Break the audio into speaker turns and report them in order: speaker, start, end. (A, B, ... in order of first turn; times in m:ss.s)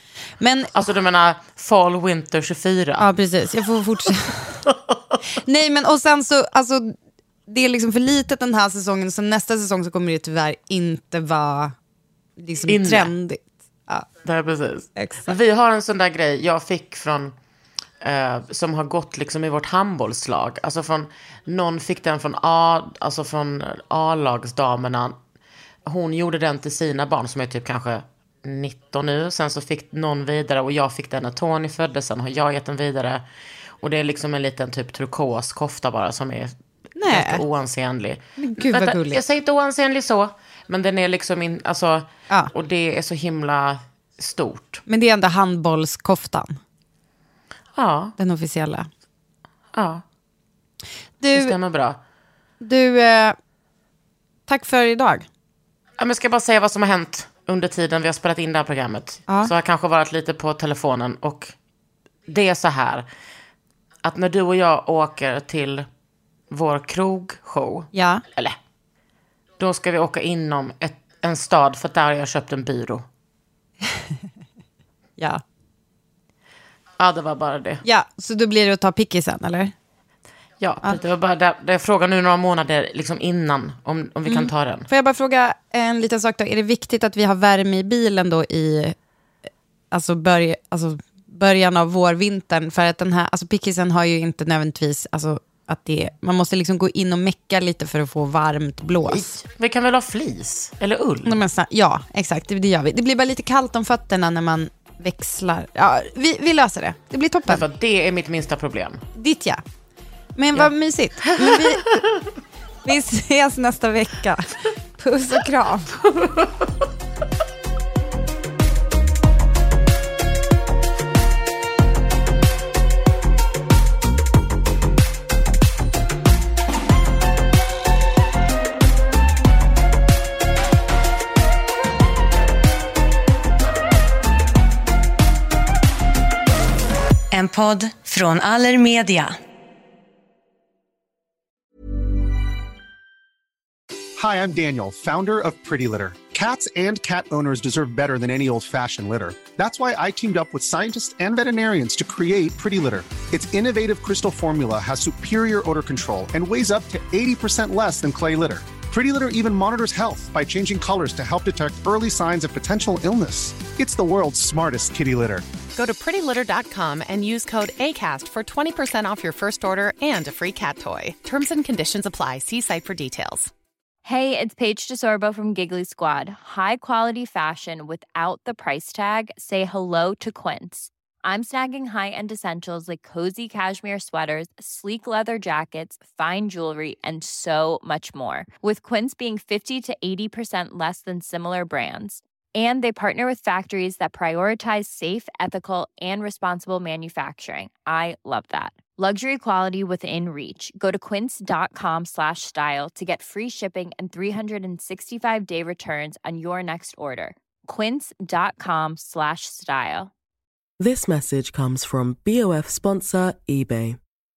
0:00.4-0:00.7 A
0:00.7-0:03.1 B
0:03.0-0:04.6 A
0:04.7-0:04.9 B
0:05.4-0:06.9 A
0:07.5-0:11.7 A
0:12.4-0:14.1 A
0:12.6-0:13.1 B
0:14.2-0:17.3 B
0:15.0-0:15.4 A
0:18.0-0:25.2 B
0:25.8-0:33.2 B
0:33.8-0:36.6 B
0:37.0-0:37.4 A
0:37.1-0:44.8 B
0:38.4-0:39.2 A
0:44.8-0:46.6 A
0:47.7-0:48.1 B
0:48.2-0:48.9 A
0:49.7-0:50.0 B
0:51.2-0:51.5 A
0:51.3-0:52.0 B
0:52.6-0:53.4 A
0:54.5-0:55.2 A
0:56.0-1:01.5 B
0:59.3-0:59.5 A
1:02.3-1:03.0 B
1:04.0-1:05.9 B
1:06.5-1:08.6 B
1:07.9-1:08.2 A
1:09.6-1:13.0 B
1:17.0-1:17.8 B
1:17.8-1:19.7 A
1:20.6-1:24.9 B
1:24.2-1:28.9 A
1:29.9-1:39.4 A
1:39.0-1:41.4 B
1:41.2-1:47.6 A
1:47.5-1:49.0 B
1:49.1-1:49.6 A
1:50.4-1:52.0 A
1:51.4-1:51.8 B
1:52.8-1:56.0 A
1:56.0-1:56.6 B
2:17.3-2:19.3 A
2:24.2-2:45.4 C
2:45.7-2:53.5 D
2:54.0-3:30.1 E
3:30.8-3:34.0 F